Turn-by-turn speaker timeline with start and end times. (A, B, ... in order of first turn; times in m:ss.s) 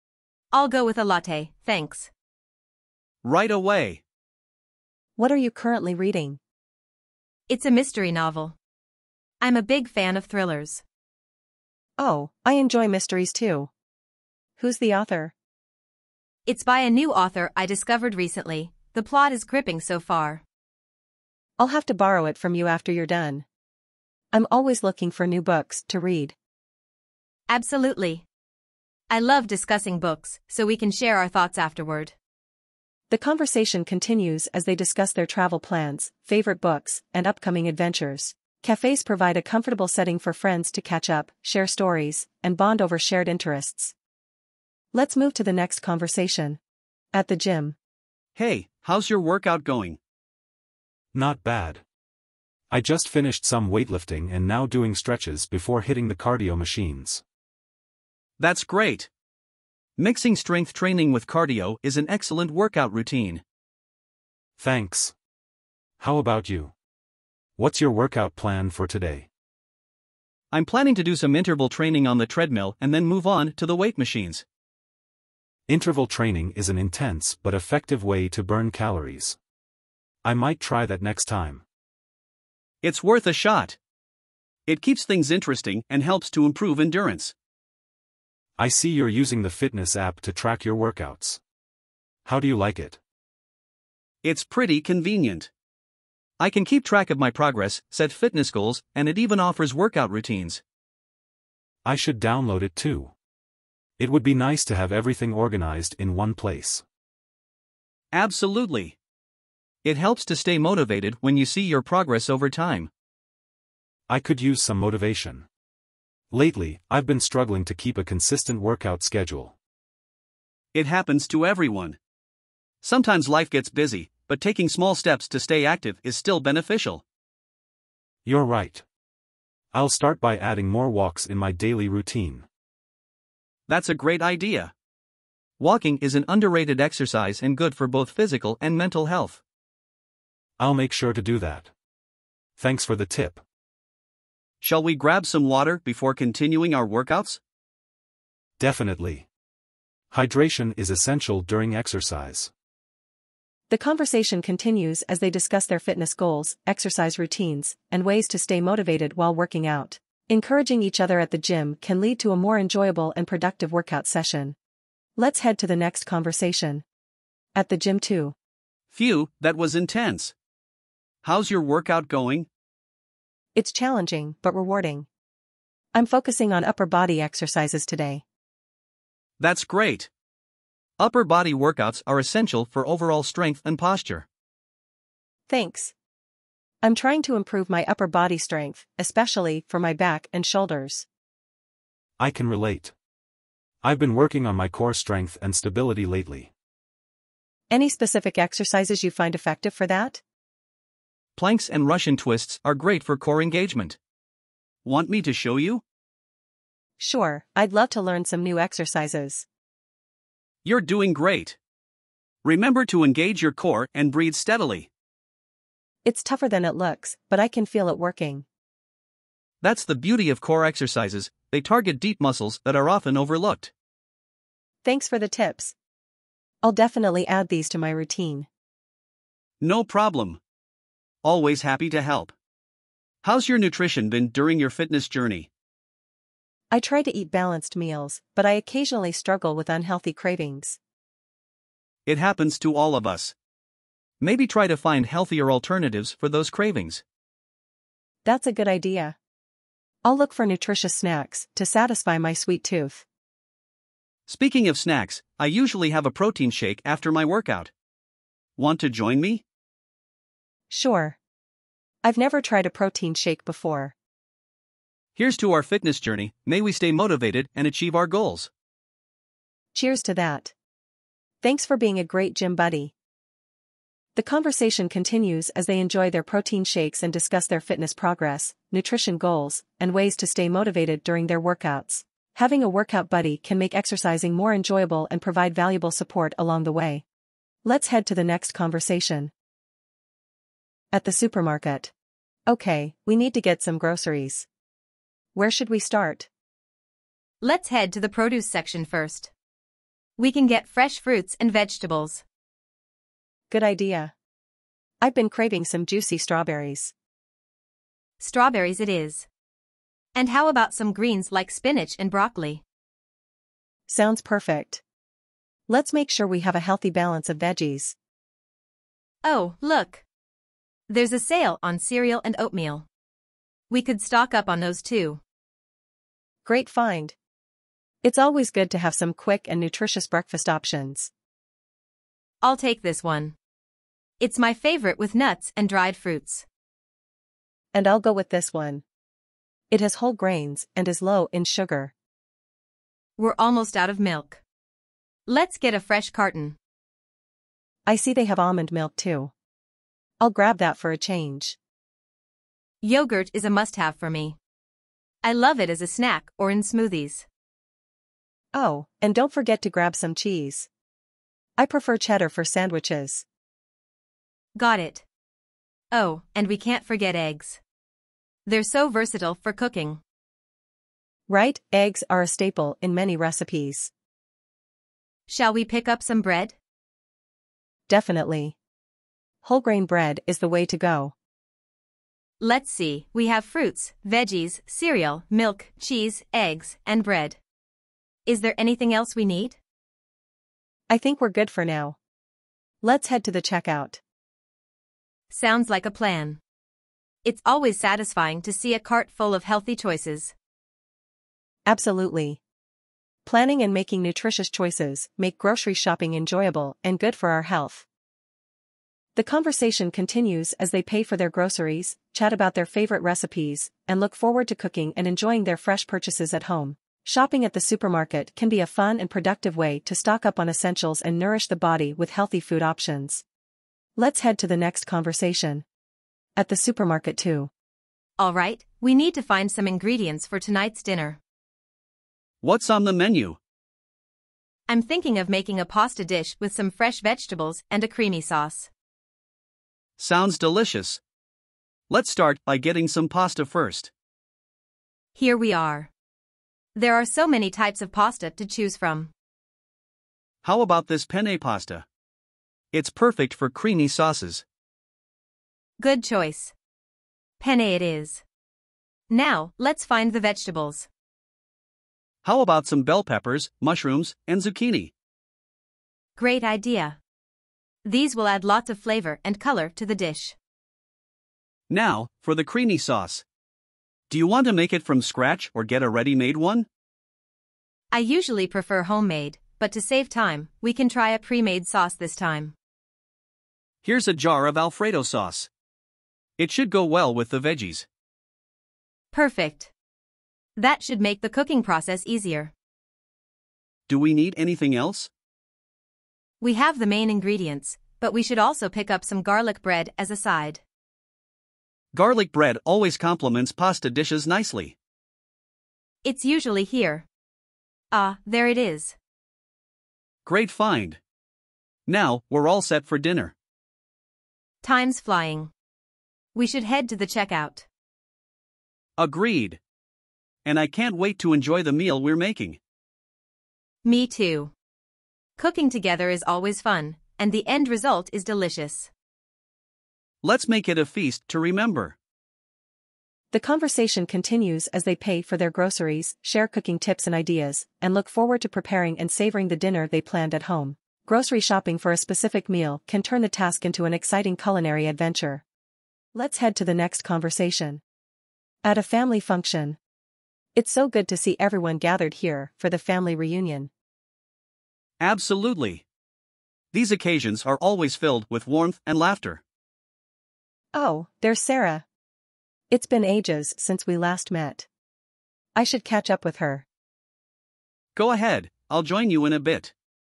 0:00.5-0:02.1 A
0:03.2-0:04.0 B
0:05.2-0:06.4 C
0:07.5-0:08.6 A
0:09.4-0:10.8 A
0:12.0-0:13.7 C
0:14.6-0:15.3 C
0:16.5-0:20.4 A
0:21.6-0:23.4 C
0:24.3-0:26.4 C
0:27.5-0:28.2 A
0:29.1-0:32.1 A
0:33.1-0:44.0 C
0:44.9-0:46.6 C
0:47.1-0:47.8 C
0:48.4-0:50.0 B
0:51.1-0:51.8 D
0:52.7-0:57.2 D
0:58.4-0:59.1 B
1:00.0-1:03.4 B
1:04.6-1:05.1 D
1:06.0-1:06.7 D
1:07.6-1:09.3 D
1:10.5-1:14.4 B
1:15.7-1:19.4 D
1:20.2-1:21.6 D
1:22.8-1:23.8 B
1:24.7-1:27.3 B
1:28.6-1:31.4 D
1:32.2-1:33.0 D
1:34.2-1:35.5 B
1:36.4-1:40.6 B
1:41.8-1:43.1 D
1:44.0-1:46.8 D
1:48.1-1:49.0 B
1:49.8-1:52.9 B
1:54.1-1:55.5 D
1:56.3-1:59.6 D
2:00.7-2:02.0 B
2:02.8-2:07.0 B
2:08.2-2:08.8 D
2:09.7-2:12.5 D
2:13.7-2:14.7 B
2:15.6-2:19.4 B
2:20.6-2:21.7 D
2:22.6-2:23.4 D
2:24.6-2:27.4 B
2:28.6-2:29.3 D
2:30.1-2:32.5 D
2:33.7-2:44.6 C
2:45.2-2:46.8 C
2:47.6-2:48.4 C
2:48.9-2:50.3 B
2:51.2-2:52.5 B
2:53.6-2:55.1 C
2:55.9-2:58.2 C
2:59.4-3:00.1 B
3:01.0-3:04.3 B
3:05.5-3:05.9 C
3:06.8-3:11.1 C
3:12.2-3:12.9 D
3:13.8-3:16.5 D
3:17.7-3:20.2 C
3:21.4-3:24.0 B
3:24.8-3:25.8 B
3:27.0-3:29.5 C
3:30.6-3:31.6 B
3:32.4-3:34.9 B
3:36.0-3:38.4 C
3:39.6-3:43.7 B
3:44.8-3:45.7 C
3:46.6-3:48.5 C
3:49.6-3:50.4 B
3:51.2-3:52.3 B
3:53.2-3:55.5 B
3:56.7-4:00.8 C
4:02.1-4:03.3 B
4:04.2-4:07.0 B
4:08.2-4:09.2 C
4:10.0-4:13.0 C
4:14.3-4:17.7 B
4:18.6-4:19.4 B
4:20.7-4:21.2 C
4:22.0-4:24.0 C
4:25.2-4:28.5 B
4:29.7-4:30.5 C
4:31.4-4:32.9 C
4:34.2-4:47.0 C
4:47.6-4:49.3 C
4:50.9-4:51.9 C
4:52.5-4:54.5 C
4:55.4-4:56.3 C
4:57.4-4:59.3 A
5:00.2-5:02.2 A
5:03.5-5:04.1 C
5:05.0-5:06.9 C
5:08.2-5:09.3 A
5:10.2-5:12.6 A
5:13.9-5:14.8 C
5:15.7-5:18.0 C
5:19.2-5:20.0 A
5:20.9-5:22.8 A
5:23.7-5:25.2 A
5:26.4-5:27.2 C
5:28.0-5:31.1 C
5:32.4-5:33.3 A
5:34.2-5:36.4 A
5:37.7-5:38.8 C
5:39.7-5:41.9 C
5:43.2-5:44.4 A
5:45.3-5:46.6 A
5:47.9-5:49.3 C
5:50.2-5:51.6 C
5:52.8-5:54.4 A
5:55.2-5:57.3 A
5:58.5-6:00.7 C
6:01.6-6:03.2 C
6:04.6-6:05.0 A
6:05.9-6:07.6 A
6:08.5-6:10.0 A
6:11.3-6:13.9 C
6:15.3-6:16.6 A
6:17.9-6:18.6 C
6:19.4-6:21.2 C
6:22.4-6:27.4 A
6:28.3-6:29.6 A
6:30.9-6:32.0 C
6:32.8-6:34.0 C
6:35.3-6:36.4 A
6:37.2-6:40.3 A
6:41.7-6:42.4 C
6:43.2-6:47.9 C
6:49.2-7:03.2 C
7:04.0-7:05.6 C
7:06.4-7:07.5 C
7:08.2-7:11.2 A
7:12.4-7:13.4 B
7:14.7-7:18.7 A
7:20.0-7:21.0 B
7:21.9-7:23.9 B
7:25.2-7:25.9 A
7:26.8-7:29.1 A
7:30.4-7:31.8 B
7:32.7-7:34.4 B
7:35.8-7:36.5 A
7:37.4-7:38.2 A
7:39.1-7:40.9 A
7:42.2-7:44.9 B
7:46.2-7:47.0 A
7:47.8-7:50.4 A
7:51.7-7:53.2 B
7:54.1-7:56.7 B
7:57.9-8:02.5 A
8:03.8-8:05.5 B
8:06.4-8:07.9 B
8:09.1-8:09.7 A
8:10.6-8:12.5 A
8:13.9-8:15.1 B
8:16.4-8:20.6 A
8:21.9-8:24.8 B
8:26.0-8:27.0 A
8:27.9-8:29.0 A
8:30.2-8:31.0 B
8:31.9-8:33.3 B
8:34.6-8:35.5 A
8:36.4-8:37.7 A
8:39.0-8:39.6 B
8:40.4-8:42.6 B
8:43.8-8:44.5 A
8:45.4-8:48.9 A
8:50.2-8:52.0 B
8:53.3-9:05.4 C
9:06.2-9:07.8 C
9:08.6-9:09.8 C
9:10.6-9:13.7 C
9:15.0-9:15.8 B
9:16.7-9:19.4 B
9:20.7-9:21.8 C
9:22.7-9:24.7 C
9:25.6-9:26.6 C
9:28.0-9:29.7 B